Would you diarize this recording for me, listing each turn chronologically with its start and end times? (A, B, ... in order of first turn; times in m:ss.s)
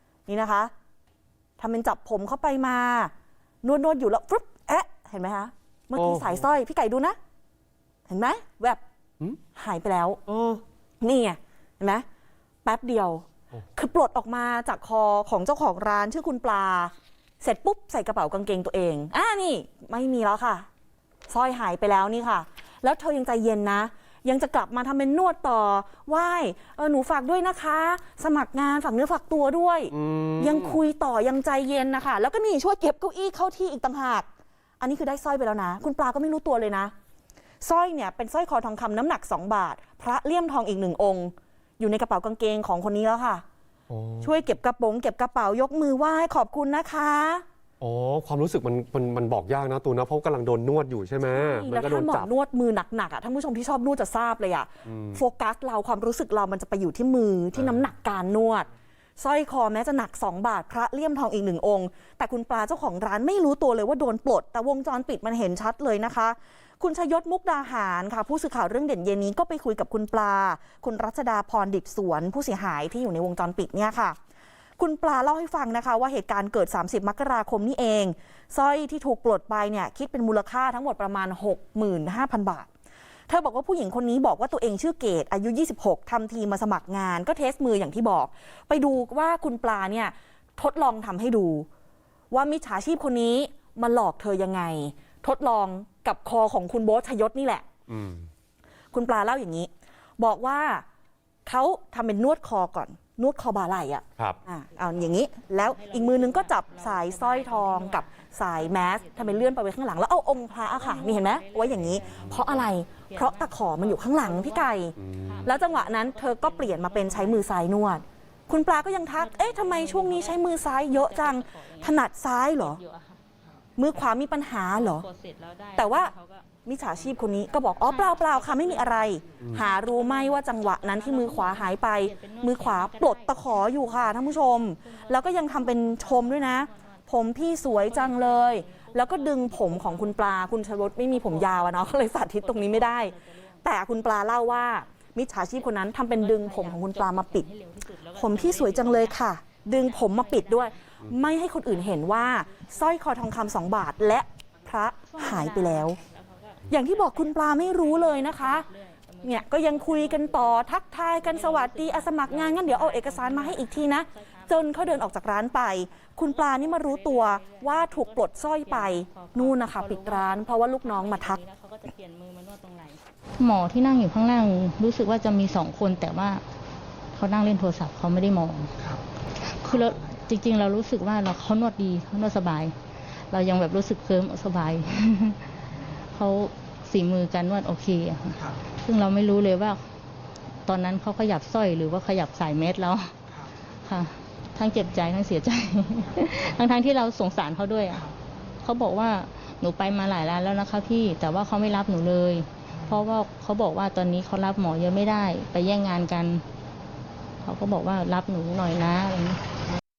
0:00.3-0:00.7 A
0:01.6-0:03.1 A
0:03.6-0:07.2 A
0:06.0-0:06.4 B
0:08.1-0:08.8 A
0:09.5-0:10.2 A
0:10.3-0:10.6 B
0:11.0-0:12.0 A
0:12.6-0:20.6 A
0:21.3-0:34.3 A
0:29.9-0:30.8 B
0:34.8-0:36.9 A
0:37.6-0:43.4 A
0:43.9-0:44.3 B
0:44.2-0:47.4 A
0:47.8-0:52.3 B
0:51.3-0:58.7 A
0:54.8-0:55.2 B
0:59.2-1:14.2 A
1:14.8-1:22.7 A
1:23.3-1:31.7 A
1:32.3-1:37.6 A
1:37.9-1:38.3 B
1:38.9-1:40.8 A
1:41.4-2:02.8 A
1:44.8-1:49.6 C
1:50.6-1:57.5 C
1:51.8-1:52.5 B
1:55.0-1:55.4 B
1:59.1-2:02.0 C
2:02.6-2:03.2 C
2:03.8-2:05.0 A
2:04.7-2:06.5 C
2:05.8-2:06.1 A
2:06.6-2:27.5 A
2:07.7-2:24.9 C
2:25.6-2:30.9 C
2:28.2-2:36.0 A
2:31.5-2:34.0 C
2:35.0-2:45.1 C
2:36.7-2:38.6 A
2:39.2-2:51.4 A
2:46.1-2:53.0 C
2:53.4-2:56.4 D
2:57.1-2:58.8 D
2:59.4-3:02.7 D
3:03.3-3:05.5 D
3:06.1-3:09.8 D
3:10.6-3:13.1 D
3:13.8-3:26.4 D
3:27.4-3:29.4 D